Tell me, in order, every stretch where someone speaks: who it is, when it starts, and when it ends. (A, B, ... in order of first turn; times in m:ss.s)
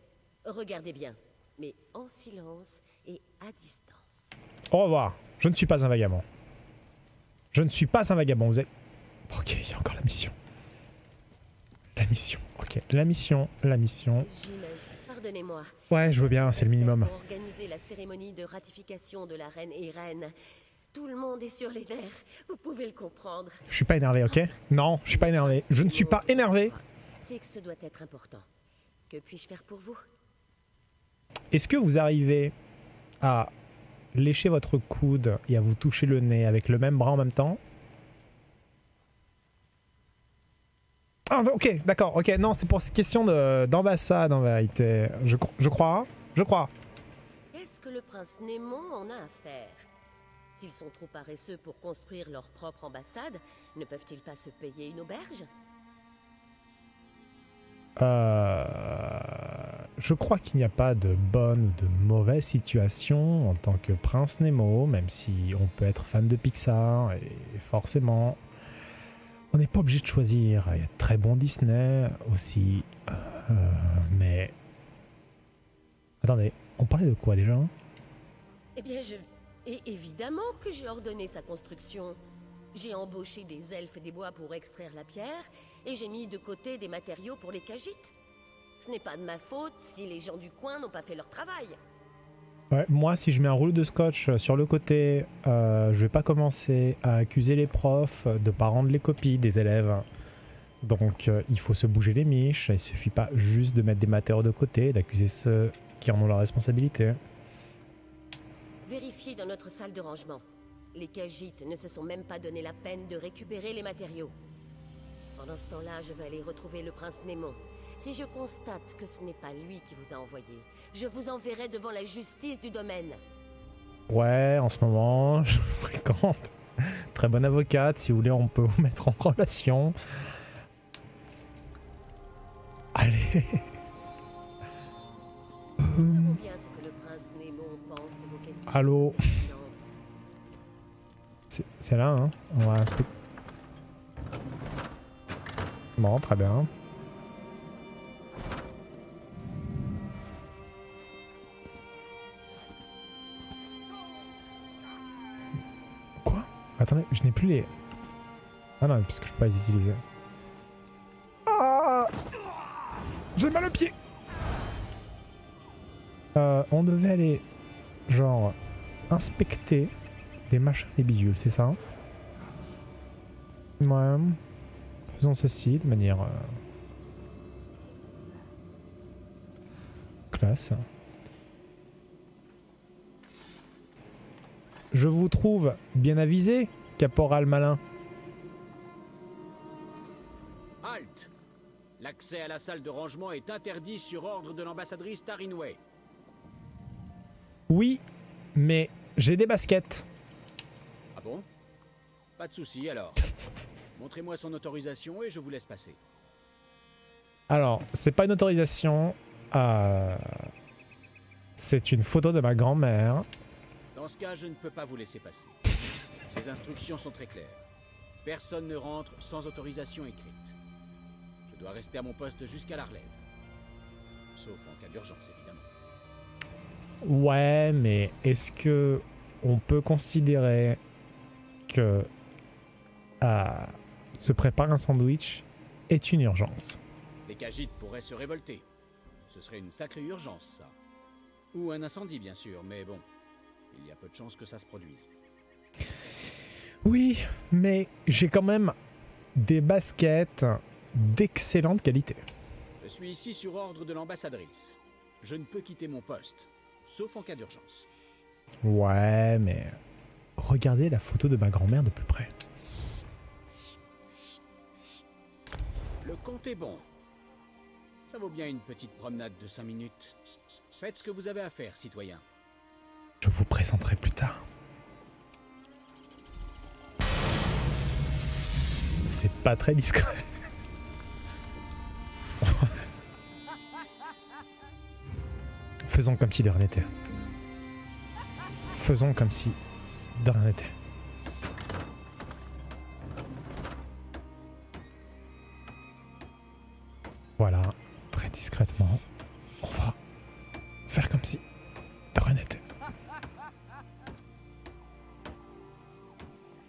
0:00.4-0:04.4 A
0:04.7-0:06.2 B
0:07.5-0:08.7 B
0:09.3-0:10.3 B
0:12.0-0:14.3 B
0:14.2-0:20.3 A
0:15.9-0:17.1 B
0:20.9-0:23.6 A
0:23.7-0:26.7 B
0:24.2-0:28.4 A
0:29.1-0:30.0 A
0:31.5-0:32.5 B
0:33.2-0:33.5 B
0:34.1-0:37.6 B
0:41.3-0:46.7 B
0:47.5-0:49.9 A
0:50.6-0:55.5 A
0:58.0-1:08.4 B
1:09.5-1:14.5 B
1:16.2-1:17.7 B
1:18.8-1:22.2 A
1:22.7-1:28.1 A
1:28.8-1:31.8 A
1:32.7-1:40.0 B
1:40.8-1:47.2 B
1:48.8-1:54.3 A
1:55.4-2:03.2 A
2:04.1-2:09.9 B
2:12.9-2:13.6 B
2:15.8-2:16.4 B
2:15.9-2:19.9 A
2:18.7-2:19.2 B
2:21.5-2:23.1 B
2:26.0-2:26.7 B
2:36.2-2:37.7 B
2:38.8-2:40.0 B
2:41.5-2:42.1 B
2:43.4-2:43.9 B
2:46.3-2:47.4 B
2:48.1-2:48.5 B
2:49.1-2:49.9 B
2:50.5-2:51.8 B
2:53.8-2:54.4 B
2:55.1-2:56.6 B
3:00.3-3:00.8 B
3:04.9-3:07.8 B
3:10.8-3:11.3 C
3:12.0-3:15.8 C
3:17.7-3:18.0 B
3:18.5-3:20.0 B
3:21.1-3:21.4 C
3:22.4-3:23.2 C
3:24.0-3:26.0 C
3:27.5-3:30.2 B
3:31.6-3:33.2 B
3:33.9-3:35.6 C
3:36.3-3:37.6 C
3:38.2-3:40.6 C
3:41.5-3:43.1 C
3:44.3-3:45.7 C
3:47.0-3:50.8 B
3:51.7-3:52.1 B
3:53.2-3:56.8 B
3:57.2-3:58.6 C
3:59.3-4:00.7 C
4:01.5-4:03.0 C
4:03.7-4:05.1 C
4:06.8-4:08.8 B
4:09.3-4:12.2 B
4:12.8-4:17.9 C
4:18.6-4:19.8 B
4:20.4-4:22.3 B
4:26.0-4:26.8 C
4:28.0-4:30.1 C
4:30.8-4:32.2 C
4:33.2-4:34.4 B
4:39.0-4:40.2 B
4:42.4-4:42.7 B
4:45.8-4:46.9 B
4:48.7-4:49.6 B
4:50.2-4:50.7 B
4:57.4-4:59.0 B
4:59.6-5:00.0 B
5:00.9-5:01.4 B
5:02.1-5:02.6 B